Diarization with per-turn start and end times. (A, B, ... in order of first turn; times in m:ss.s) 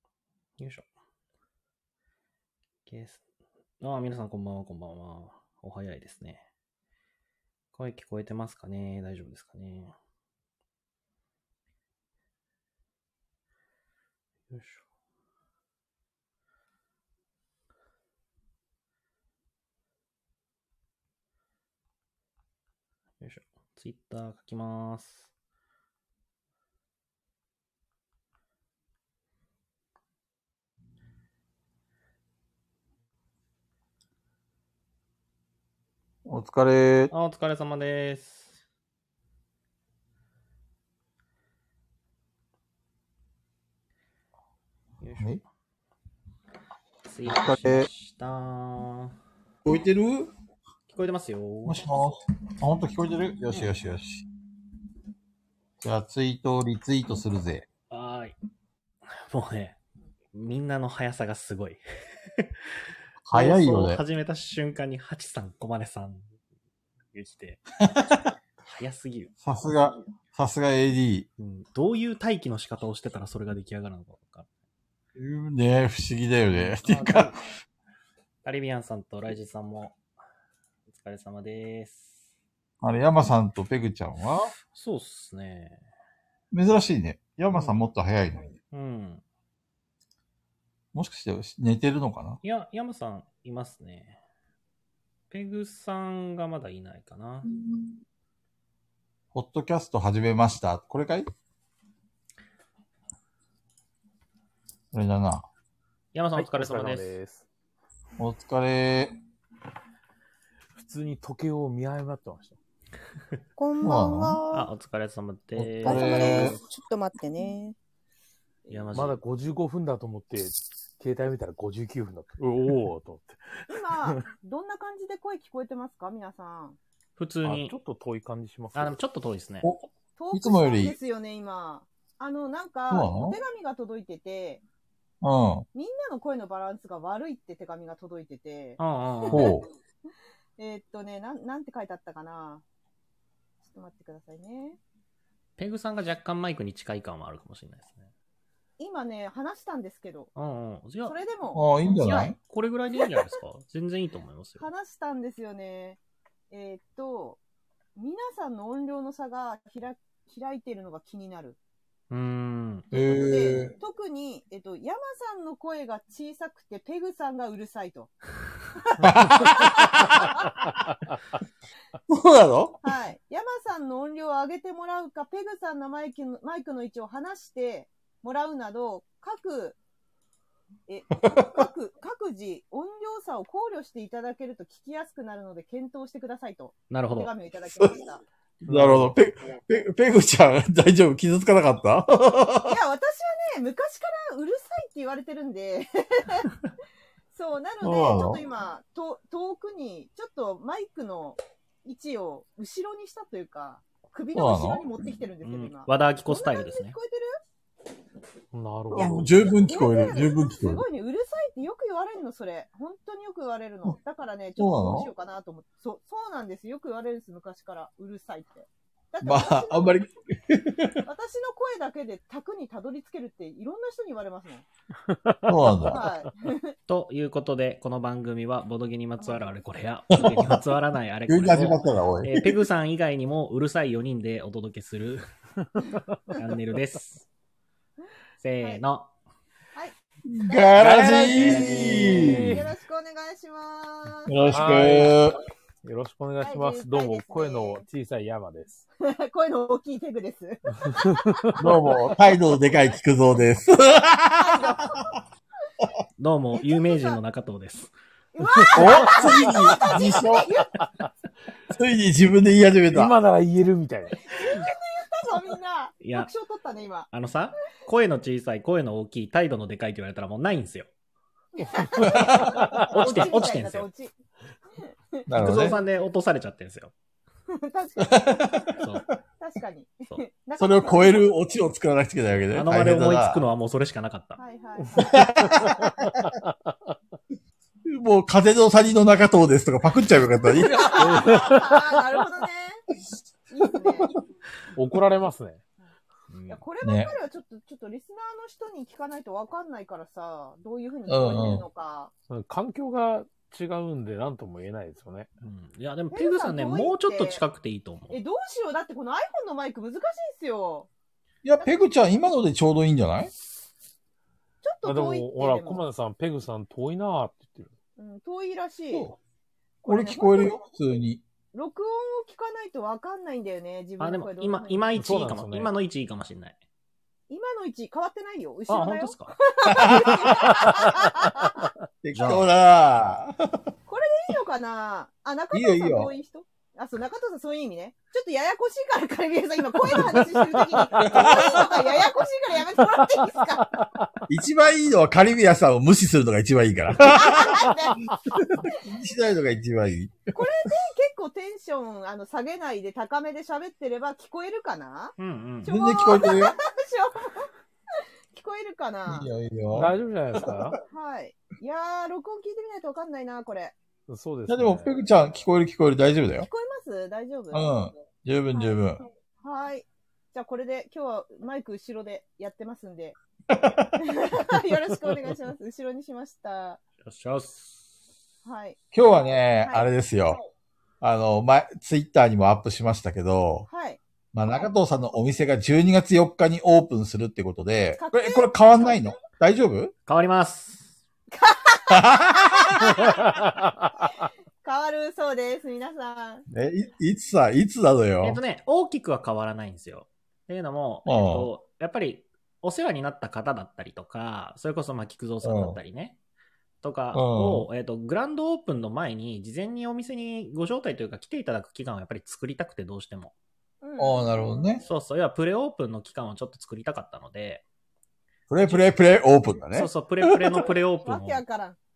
0:00.6-0:00.9 A
0:02.9-0:03.2 A
0:03.8-0:06.5 A
0:07.7-0:10.0 A
0:14.5-0:14.8 A
0:23.2-0:25.3 A
0:36.3-0:37.1 B
0:37.1-0:38.6 A
0:45.0-0:45.4 A
0:47.0-0:49.2 A
0:47.3-0:47.9 B
0:49.6-0:50.3 B
0:50.9-0:51.9 A
0:51.6-0:54.2 B
0:55.8-0:57.7 B
0:57.9-0:58.4 A
0:59.1-0:59.8 A
1:00.3-1:01.8 A
1:02.4-1:06.3 A
1:03.3-1:04.0 B
1:07.1-1:07.6 A
1:08.0-1:08.2 B
1:08.7-1:09.3 A
1:09.4-1:11.3 B
1:11.4-1:14.5 A
1:15.2-1:17.4 B
1:16.5-1:17.4 A
1:18.4-1:20.0 A
1:20.9-1:22.2 A
1:22.8-1:24.5 B
1:24.7-1:25.8 A
1:26.5-1:28.5 B
1:28.7-1:29.2 A
1:30.9-1:32.4 B
1:32.4-1:34.2 A
1:35.3-1:37.5 A
1:39.3-1:41.3 B
1:44.9-1:45.5 B
1:46.1-1:47.2 A
1:46.4-1:47.5 C
1:48.2-1:49.2 B
1:50.8-1:52.6 C
1:53.6-1:54.7 D
1:53.8-1:54.4 B
1:54.5-1:56.5 A
1:55.6-1:56.6 B
1:55.8-1:57.8 D
1:58.7-1:59.2 A
1:58.9-2:04.2 C
2:03.7-2:06.8 D
2:07.2-2:07.8 A
2:07.4-2:09.0 C
2:08.8-2:09.7 A
2:09.6-2:11.0 B
2:10.2-2:14.6 D
2:12.9-2:13.4 B
2:15.2-2:15.7 B
2:15.7-2:19.6 D
2:18.8-2:19.5 A
2:19.3-2:19.7 B
2:20.6-2:22.6 D
2:23.6-2:24.8 D
2:25.6-2:28.1 A
2:28.8-2:30.3 D
2:30.4-2:31.2 A
2:31.0-2:31.6 D
2:31.5-2:32.4 B
2:32.0-2:34.7 A
2:34.6-2:36.0 D
2:36.5-2:37.4 D
2:38.0-2:41.6 D
2:42.1-2:42.9 A
2:42.9-2:43.7 B
2:42.9-2:48.2 D
2:49.0-2:49.3 A
2:49.0-2:50.7 B
2:49.4-2:50.5 D
2:52.1-2:52.8 B
2:52.8-2:59.8 D
3:00.9-3:08.2 D
3:01.3-3:01.7 B
3:06.9-3:07.3 A
3:07.8-3:08.0 B
3:08.6-3:12.8 B
3:08.7-3:09.1 C
3:08.7-3:09.0 A
3:12.6-3:16.6 D
3:17.3-3:27.4 D
3:17.8-3:18.4 B
3:24.3-3:24.9 B
3:25.4-3:27.0 A
3:28.5-3:29.4 C
3:28.9-3:30.8 B
3:28.9-3:40.0 D
3:34.6-3:35.1 B
3:39.2-3:41.0 B
3:41.0-3:44.6 D
3:45.1-3:45.5 C
3:45.5-3:46.1 B
3:45.8-3:46.8 D
3:46.9-3:55.3 A
3:49.2-3:49.6 D
3:50.2-3:50.6 B
3:51.3-3:52.6 B
3:56.3-3:57.3 A
3:58.4-3:59.1 A
4:00.3-4:02.6 B
4:00.5-4:04.8 D
4:00.8-4:02.7 C
4:01.0-4:02.1 A
4:04.3-4:05.4 B
4:04.5-4:05.2 C
4:05.8-4:08.8 C
4:06.4-4:07.8 D
4:09.0-4:11.5 D
4:10.9-4:11.6 C
4:11.6-4:15.1 B
4:14.4-4:15.0 D
4:16.2-4:17.9 A
4:16.8-4:17.2 D
4:18.3-4:20.8 D
4:18.7-4:20.5 B
4:18.8-4:20.0 C
4:20.8-4:21.1 C
4:21.7-4:23.2 B
4:22.9-4:24.4 C
4:24.3-4:27.1 D
4:26.0-4:26.3 A
4:27.1-4:30.9 A
4:31.6-4:34.1 D
4:32.0-4:32.9 C
4:32.0-4:32.8 B
4:32.9-4:33.9 A
4:34.8-4:35.8 D
4:35.3-4:35.8 B
4:35.4-4:36.9 A
4:37.5-4:38.7 D
4:38.0-4:39.1 B
4:38.8-4:39.1 A
4:39.4-4:41.3 D
4:40.6-4:43.4 B
4:42.5-4:44.4 A
4:44.4-4:45.9 D
4:44.8-4:45.7 C
4:45.0-4:46.3 B
4:47.8-4:51.5 B
4:50.5-4:52.8 D
4:51.0-4:52.0 C
4:53.5-4:54.2 D
4:53.8-4:54.1 B
4:54.7-4:55.6 C
4:56.3-4:56.6 A
4:56.5-5:02.1 D
4:56.8-4:57.1 B
5:01.1-5:01.7 B
5:02.3-5:05.3 C
5:05.4-5:08.2 A
5:06.1-5:07.4 D
5:08.1-5:10.9 D
5:11.4-5:13.3 B
5:14.6-5:15.8 D
5:14.8-5:17.7 C
5:18.0-5:19.1 D
5:19.8-5:20.6 D
5:19.8-5:21.2 B
5:21.5-5:24.8 D
5:24.0-5:26.6 A
5:24.9-5:25.7 C
5:27.3-5:31.7 D
5:28.7-5:29.4 A
5:29.7-5:31.5 B
5:32.0-5:33.6 B
5:32.1-5:32.5 A
5:33.9-5:43.8 D
5:35.5-5:36.1 B
5:41.0-5:41.8 B
5:44.3-5:50.4 B
5:47.0-5:48.1 D
5:50.3-5:57.5 D
5:55.2-5:55.7 A
5:55.6-5:56.6 B
5:58.3-5:59.3 D
5:59.1-6:00.8 B
5:59.7-6:00.8 C
6:00.9-6:03.8 D
6:04.1-6:04.9 C
6:04.5-6:06.5 B
6:06.4-6:07.7 D
6:07.5-6:09.0 B
6:08.5-6:13.2 D
6:13.5-6:14.1 B
6:14.0-6:16.8 D
6:17.0-6:17.9 A
6:18.4-6:18.8 D
6:18.9-6:20.4 B
6:19.6-6:19.9 D
6:21.0-6:23.7 B
6:23.7-6:24.0 D
6:24.3-6:29.9 B
6:28.0-6:29.1 D
6:30.1-6:31.0 A
6:31.3-6:33.3 D
6:31.9-6:33.2 B
6:34.6-6:36.5 D
6:36.5-6:38.4 B
6:38.2-6:46.2 A
6:41.1-6:41.5 B
6:45.4-6:45.8 B
6:46.8-6:53.4 A
6:47.1-6:47.7 B
6:53.8-6:54.8 D
6:54.0-6:54.8 B
6:54.8-6:57.6 A
6:58.5-7:00.6 B
6:58.6-6:59.0 A
6:59.7-7:01.4 A
7:01.0-7:01.8 D